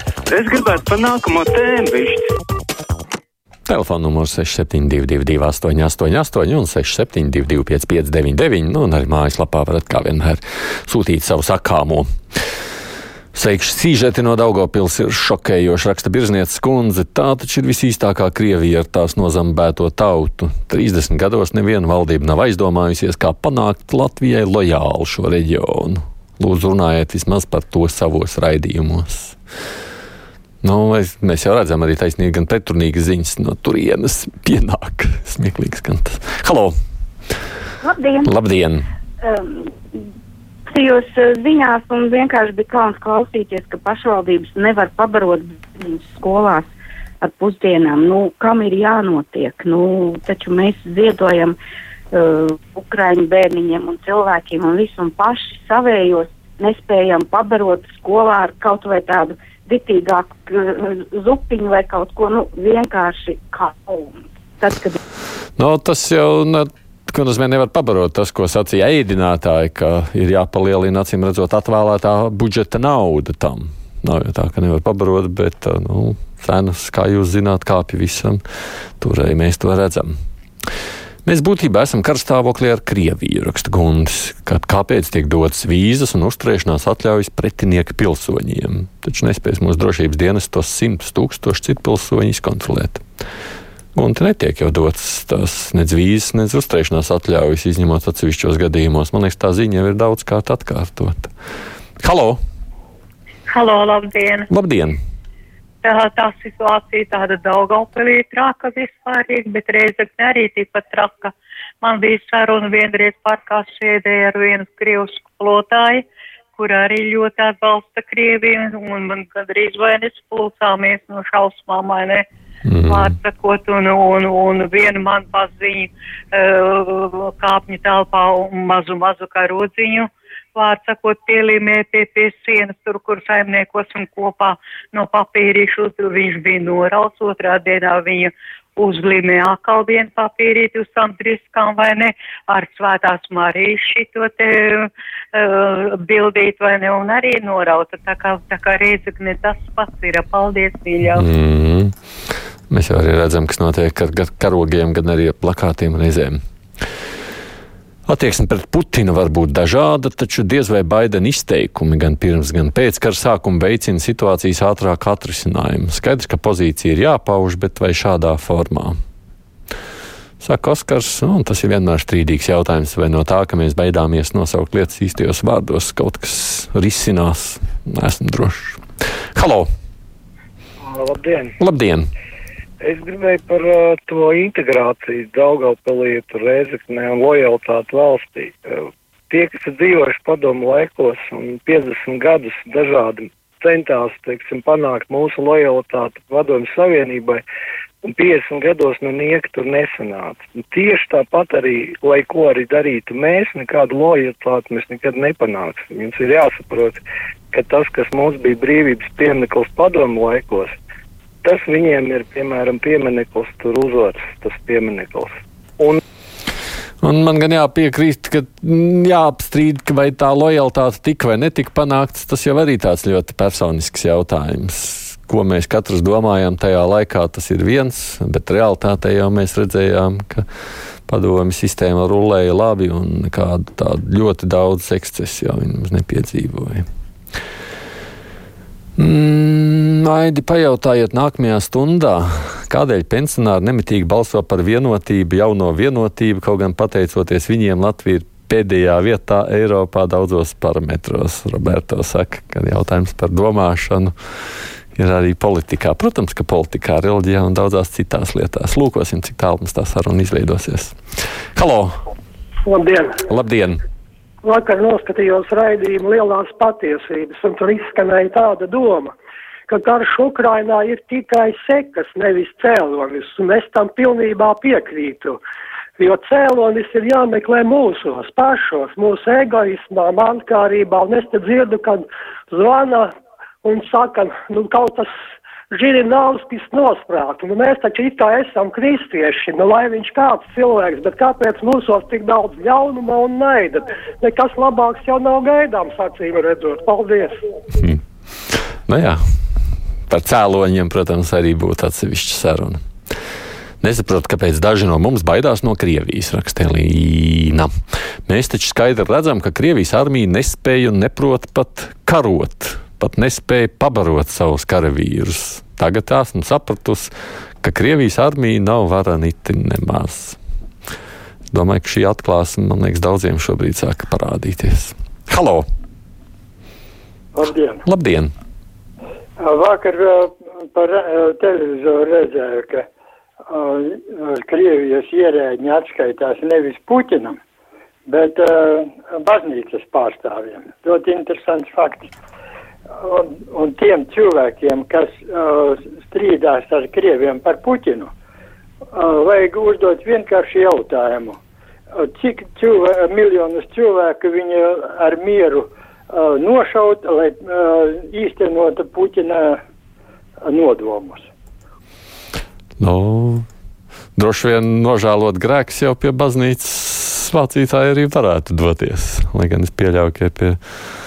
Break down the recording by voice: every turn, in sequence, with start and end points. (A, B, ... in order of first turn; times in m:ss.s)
0:00.3-0:02.2 A
0:03.7-0:12.0 B
0:13.3-0:29.3 B
0:30.6-0:36.7 B
0:37.8-0:38.3 C
0:38.2-0:38.8 B
0:39.2-0:39.7 C
0:40.7-0:46.7 C
0:47.2-0:51.6 C
0:52.1-1:05.0 C
1:05.6-1:18.4 B
1:19.0-1:20.1 B
1:21.2-1:33.0 B
1:33.9-1:41.3 B
1:42.0-1:42.4 B
1:43.5-1:44.5 D
1:44.5-1:45.0 B
1:45.8-1:56.0 D
1:56.6-2:02.2 D
2:02.6-2:03.1 B
2:02.8-2:31.2 D
2:31.1-2:31.9 B
2:32.7-2:36.4 B
2:38.1-2:48.9 B
2:50.4-2:58.8 B
2:59.3-2:59.7 B
3:00.8-3:01.5 E
3:01.6-3:02.1 B
3:02.8-3:17.4 E
3:18.0-3:30.8 E
3:31.4-3:36.0 E
3:37.0-3:50.4 B
3:51.1-3:56.8 B
3:59.0-4:14.1 B
4:15.0-4:21.0 B
4:21.6-4:21.9 B
4:22.6-4:23.1 F
4:23.3-4:23.8 B
4:24.4-4:29.1 F
4:29.7-4:35.4 F
4:36.0-4:43.1 F
4:43.6-4:45.1 F
4:45.7-4:57.3 F
4:58.9-4:59.2 B
5:00.1-5:02.8 B
5:03.8-5:07.7 B
5:08.3-5:20.4 B
5:21.5-5:25.6 B
5:27.3-5:27.8 G
5:27.8-5:28.3 B
5:29.4-5:32.9 G
5:33.5-5:37.4 G
5:38.1-5:42.1 G
5:43.0-5:48.1 G
5:48.9-5:51.4 G
5:51.9-5:59.6 G
6:00.4-6:01.3 G
6:02.8-6:03.4 B
6:04.2-6:10.6 B